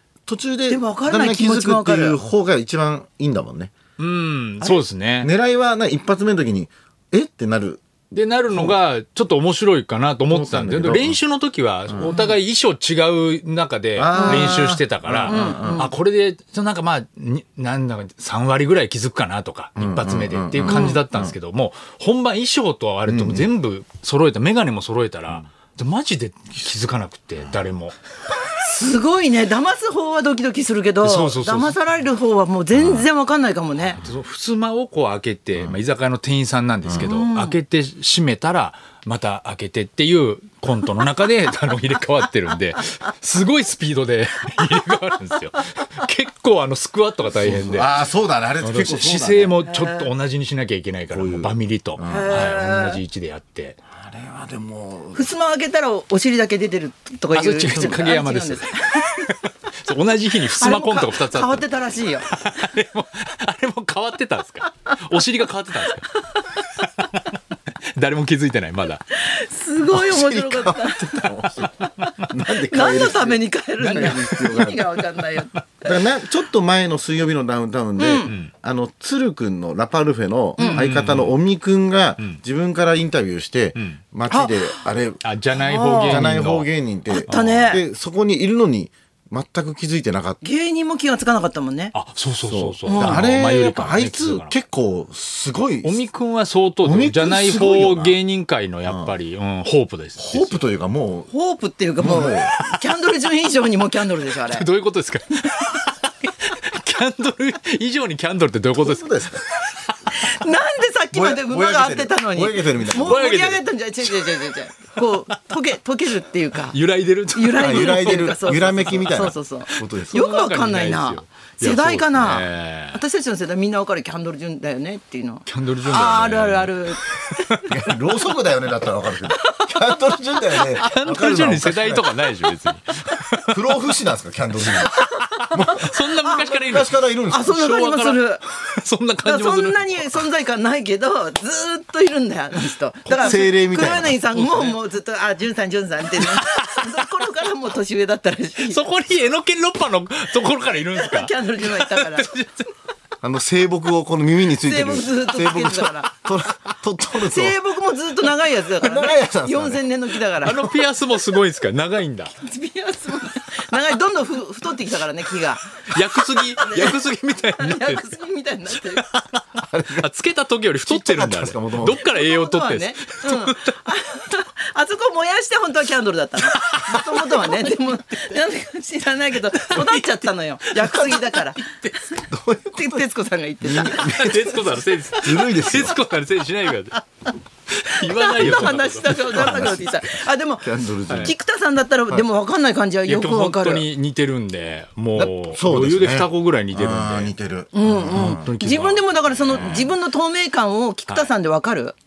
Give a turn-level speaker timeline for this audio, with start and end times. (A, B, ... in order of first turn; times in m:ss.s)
0:00.3-0:03.7 A
0:00.7-0:02.2 B
0:04.0-0:05.3 C
0:04.6-0:07.8 A
0:08.1-0:28.0 C
0:10.3-0:11.2 A
0:11.9-0:12.2 A
0:14.0-0:15.9 A
0:14.1-0:14.8 B
0:15.3-0:15.9 B
0:19.8-0:21.4 A
0:20.6-0:21.0 B
0:23.1-0:23.5 A
0:28.6-0:34.0 B
0:31.0-0:31.8 C
0:32.8-0:33.1 A
0:33.9-0:48.0 C
0:36.9-0:37.6 B
0:47.4-0:49.6 A
0:48.6-0:53.8 C
0:49.7-0:50.1 B
0:51.1-0:52.5 A
0:52.1-0:53.0 B
0:54.0-0:55.3 A
0:55.1-0:59.2 B
0:57.3-1:01.7 C
0:57.7-0:58.0 A
1:00.5-1:02.3 B
1:02.3-1:09.1 C
1:05.8-1:06.6 B
1:09.1-1:12.1 B
1:09.9-1:15.0 A
1:12.7-1:16.0 B
1:13.8-1:14.7 C
1:15.4-1:15.6 C
1:15.8-1:25.2 A
1:18.0-1:18.3 B
1:18.2-1:18.5 C
1:20.6-1:20.8 B
1:20.6-1:21.4 C
1:23.8-1:24.0 C
1:24.3-1:24.8 B
1:25.2-1:26.7 C
1:25.6-1:26.3 B
1:26.0-1:30.4 A
1:27.1-1:27.8 B
1:27.2-1:27.7 C
1:30.4-1:31.9 B
1:31.9-1:34.6 C
1:32.4-1:36.0 A
1:32.9-1:33.3 B
1:35.8-1:40.6 C
1:36.8-1:38.2 A
1:38.9-1:39.2 A
1:40.2-1:41.3 A
1:41.3-1:44.7 B
1:42.0-1:42.6 A
1:44.4-1:50.0 C
1:48.8-1:49.4 A
1:50.1-1:56.8 B
1:51.1-1:53.2 A
1:53.0-1:55.1 C
1:56.5-2:03.0 C
1:57.3-2:07.7 B
1:57.6-2:00.2 A
2:05.5-2:07.8 C
2:07.7-2:12.1 A
2:09.3-2:10.6 B
2:10.6-2:13.8 C
2:13.4-2:17.6 A
2:14.8-2:20.2 C
2:17.3-2:18.4 B
2:19.2-2:28.8 B
2:23.1-2:24.2 A
2:23.1-2:24.8 C
2:26.2-2:26.9 C
2:28.7-2:32.7 C
2:30.9-2:32.3 B
2:33.2-2:37.6 A
2:34.5-2:36.1 B
2:37.2-2:40.7 B
2:38.7-2:39.8 A
2:40.4-2:42.4 C
2:42.4-2:49.1 B
2:45.9-2:48.2 C
2:48.7-2:53.7 C
2:49.7-2:50.1 A
2:50.8-2:52.0 A
2:51.9-3:02.2 B
2:56.5-2:57.7 C
2:59.5-3:02.1 C
3:02.2-3:03.1 A
3:02.8-3:04.6 B
3:03.6-3:04.6 A
3:03.6-3:07.1 C
3:05.2-3:06.0 A
3:07.7-3:10.0 C
3:07.9-3:13.9 B
3:08.4-3:11.4 A
3:11.1-3:11.3 C
3:13.1-3:17.4 C
3:15.2-3:18.5 A
3:17.7-3:22.0 B
3:18.1-3:19.8 C
3:19.5-3:19.9 A